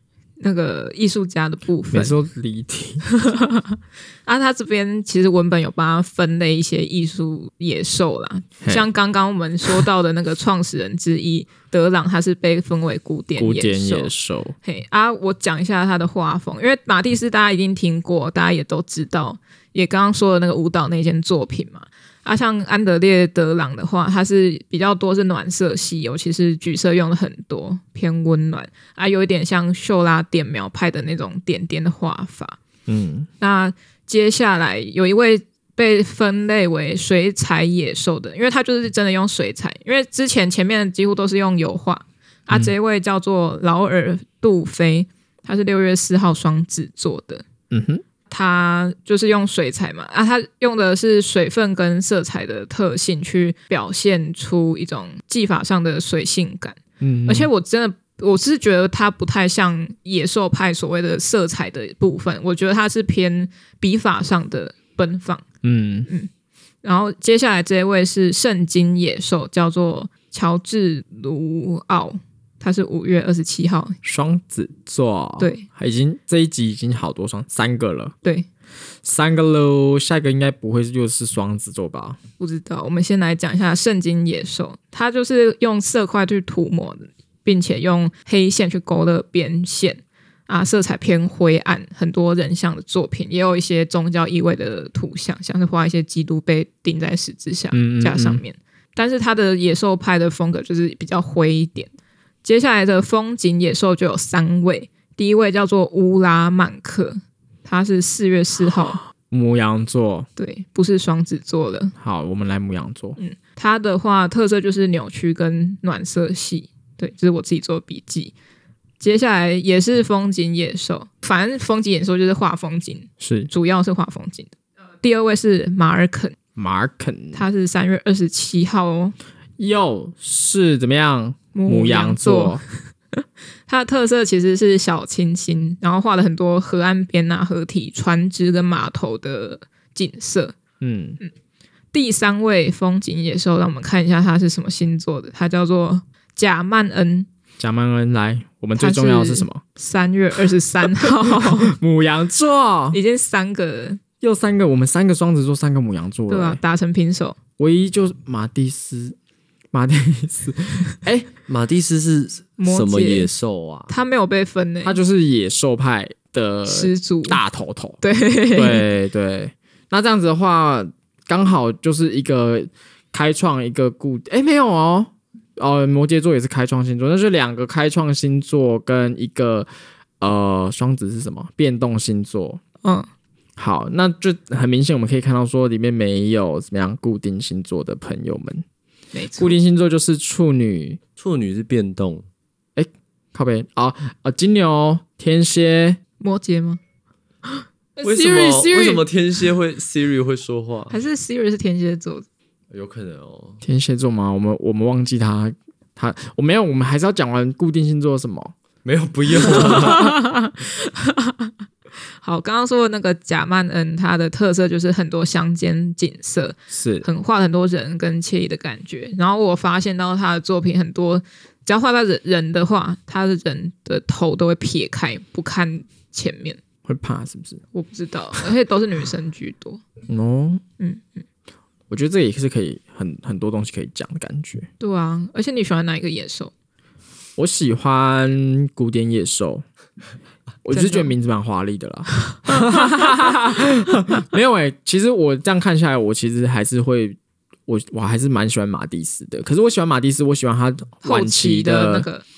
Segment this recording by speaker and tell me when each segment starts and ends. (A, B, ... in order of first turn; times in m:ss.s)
0:00.4-0:02.1 A
0:01.9-0:03.0 B
0:03.2-0:14.1 A
0:13.4-0:14.6 B
0:14.6-0:32.6 A
0:32.9-0:33.3 B
0:33.4-0:47.4 A
0:47.7-0:48.0 B
0:48.3-1:05.4 A
0:57.0-0:57.5 B
1:05.6-1:06.1 B
1:06.8-1:14.0 A
1:14.0-1:18.2 B
1:15.4-1:15.6 A
1:19.0-1:22.2 B
1:22.4-1:41.9 A
1:37.7-1:38.4 B
1:42.4-1:49.0 A
1:49.3-1:50.3 B
1:50.4-1:51.9 A
1:52.0-1:53.2 B
1:53.2-1:58.3 A
1:59.0-2:06.4 A
2:03.2-2:03.5 B
2:06.6-2:07.4 B
2:07.3-2:09.2 A
2:09.6-2:12.6 B
2:11.5-2:12.6 A
2:13.2-2:20.6 A
2:20.8-2:21.2 B
2:21.9-2:27.3 A
2:27.6-2:29.6 B
2:28.8-2:31.8 A
2:31.1-2:33.0 B
2:32.9-2:34.0 A
2:34.2-2:36.6 B
2:36.3-2:37.4 A
2:37.6-2:39.2 B
2:39.7-2:41.3 B
2:41.5-2:43.9 C
2:42.6-2:43.3 A
2:43.9-2:45.0 A
2:44.8-2:48.0 B
2:46.7-2:47.4 A
2:48.0-2:48.9 A
2:48.5-2:59.7 B
3:00.2-3:02.6 B
3:03.6-3:08.6 B
3:09.1-3:09.6 A
3:09.4-3:11.0 B
3:11.2-3:12.3 C
3:12.8-3:16.0 B
3:16.2-3:16.8 A
3:17.5-3:19.0 A
3:18.0-3:21.0 C
3:20.9-3:22.3 A
3:22.7-3:23.6 C
3:23.6-3:28.5 B
3:28.8-3:30.2 C
3:29.4-3:31.5 A
3:32.2-3:46.6 A
3:36.7-3:37.1 B
3:46.8-3:47.6 B
3:47.7-3:49.8 A
3:50.1-3:50.6 B
3:50.8-3:51.2 A
3:51.9-3:54.7 B
3:54.8-3:56.5 A
3:57.4-3:59.6 B
4:00.6-4:12.1 B
4:00.7-4:01.1 A
4:02.3-4:03.3 A
4:11.0-4:12.2 A